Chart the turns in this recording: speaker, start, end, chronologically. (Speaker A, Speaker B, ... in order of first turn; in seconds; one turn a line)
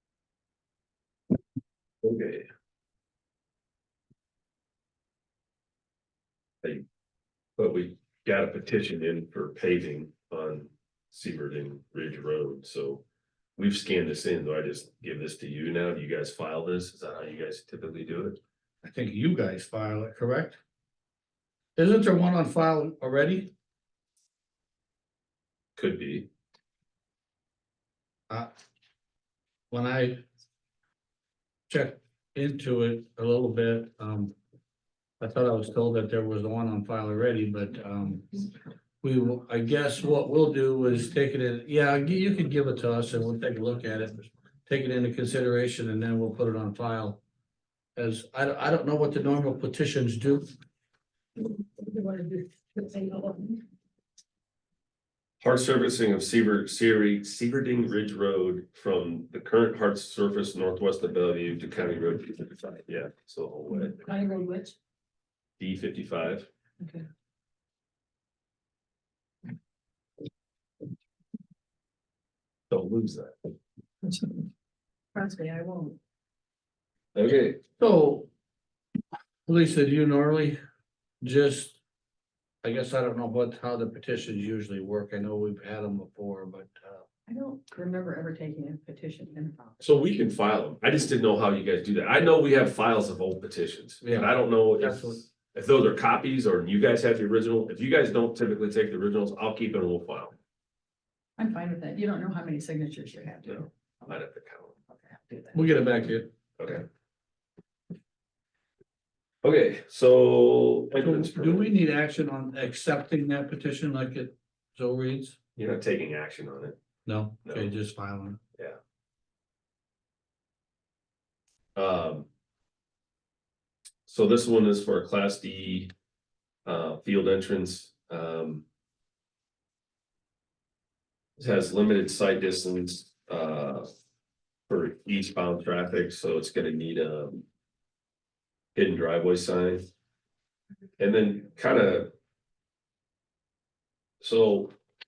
Speaker A: 2.0-2.5
Speaker A: 7.6-13.0
Speaker A: 13.6-18.4
Speaker B: 18.8-20.6
Speaker B: 21.8-23.5
Speaker A: 25.8-26.3
Speaker B: 29.7-30.2
Speaker B: 31.7-34.3
Speaker B: 35.2-38.5
Speaker B: 39.0-47.2
Speaker B: 48.0-50.5
Speaker C: 51.4-53.6
Speaker A: 55.4-64.0
Speaker C: 63.7-64.8
Speaker A: 65.6-66.5
Speaker C: 66.8-67.1
Speaker A: 72.7-73.3
Speaker C: 75.2-76.0
Speaker A: 77.2-77.6
Speaker B: 77.8-78.3
Speaker B: 79.5-80.6
Speaker B: 81.2-81.8
Speaker B: 82.6-87.0
Speaker C: 87.3-89.8
Speaker A: 89.8-100.3
Speaker B: 94.0-95.2
Speaker C: 101.4-103.7
Speaker A: 103.5-104.8
Speaker C: 104.9-105.6
Speaker B: 105.5-106.3
Speaker A: 106.6-106.8
Speaker A: 109.4-111.7
Speaker B: 111.0-115.4
Speaker A: 115.6-116.8
Speaker B: 117.1-118.4
Speaker A: 117.5-117.7
Speaker A: 121.8-122.3
Speaker A: 124.1-125.9
Speaker A: 126.7-128.7
Speaker A: 131.4-133.9
Speaker A: 134.7-137.4
Speaker A: 138.8-139.9
Speaker A: 141.0-142.1
Speaker A: 144.2-144.7